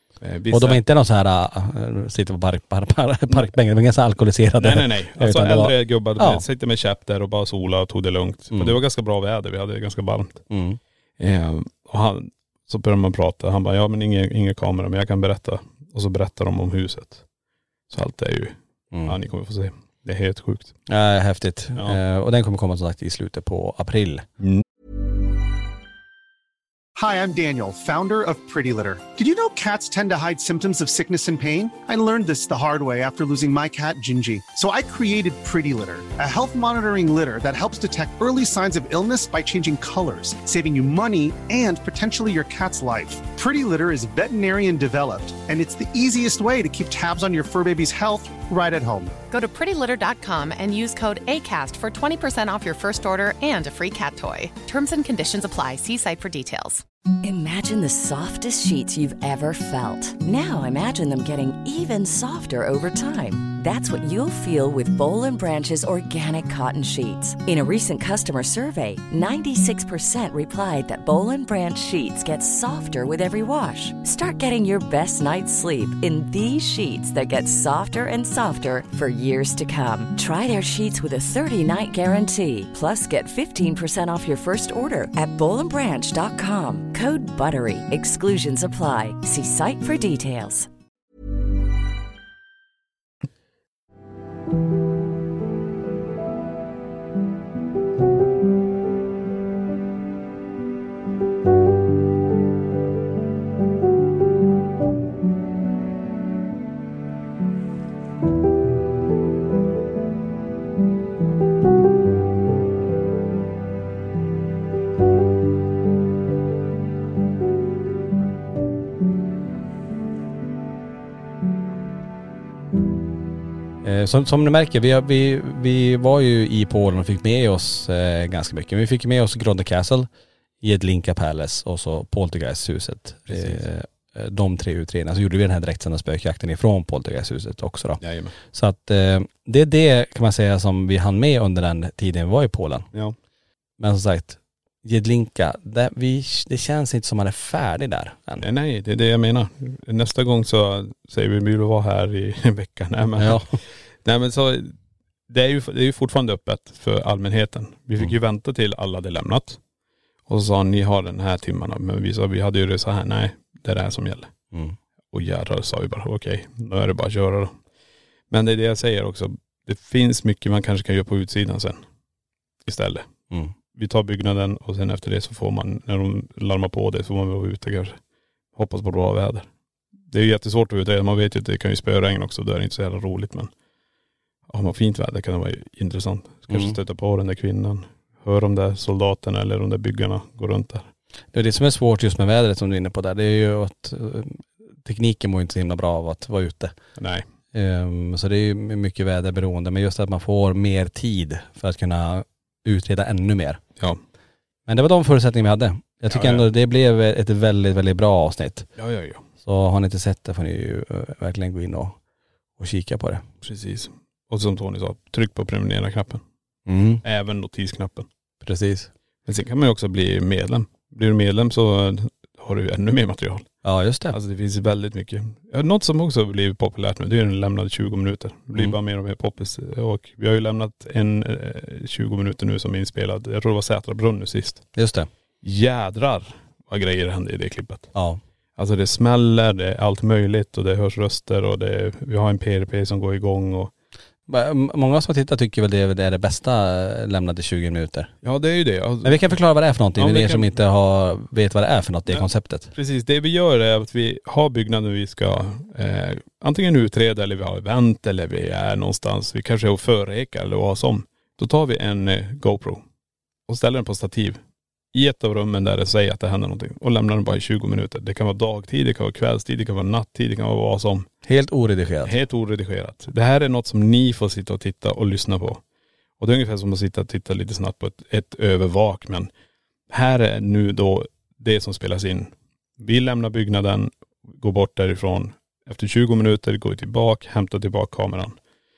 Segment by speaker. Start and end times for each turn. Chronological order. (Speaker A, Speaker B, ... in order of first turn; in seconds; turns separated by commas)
Speaker A: 0.2-0.8, Speaker B: 0.5-6.4, Speaker A: 4.6-10.4, Speaker B: 8.5-8.8, Speaker B: 10.5-10.8, Speaker A: 11.2-17.2, Speaker A: 17.9-20.8, Speaker B: 18.9-19.2, Speaker B: 20.9-24.3, Speaker C: 27.0-49.1, Speaker D: 49.3-56.8, Speaker E: 57.2-90.7, Speaker B: 123.8-130.1, Speaker B: 130.6-142.9, Speaker A: 133.3-133.6, Speaker A: 138.0-138.3, Speaker B: 143.8-148.5, Speaker A: 148.4-154.7, Speaker B: 153.2-153.6, Speaker A: 155.3-159.6, Speaker A: 160.3-164.3, Speaker A: 165.1-167.5, Speaker A: 168.3-171.8, Speaker A: 172.7-173.1, Speaker A: 173.8-178.0, Speaker A: 178.6-179.5, Speaker A: 180.1-183.5, Speaker A: 184.5-190.9, Speaker B: 186.5-186.8, Speaker B: 191.3-196.8, Speaker A: 197.0-197.2, Speaker B: 197.5-203.6, Speaker B: 204.7-208.7, Speaker A: 206.1-206.5, Speaker A: 208.8-209.2, Speaker B: 209.4-212.0, Speaker B: 212.6-213.2, Speaker A: 213.4-216.2, Speaker B: 216.7-217.0, Speaker A: 217.0-218.1, Speaker B: 218.4-218.9, Speaker A: 219.3-223.5, Speaker B: 223.6-224.2, Speaker A: 224.1-234.6, Speaker B: 234.8-235.1, Speaker A: 235.4-237.9, Speaker B: 237.9-238.2, Speaker A: 238.6-243.7, Speaker B: 244.3-248.1, Speaker A: 248.2-249.4, Speaker B: 249.0-252.7, Speaker A: 250.0-250.6, Speaker A: 252.1-262.8, Speaker A: 263.5-264.4, Speaker A: 264.9-271.1, Speaker B: 271.3-272.1, Speaker A: 272.0-275.6, Speaker A: 276.2-279.3, Speaker A: 279.9-288.4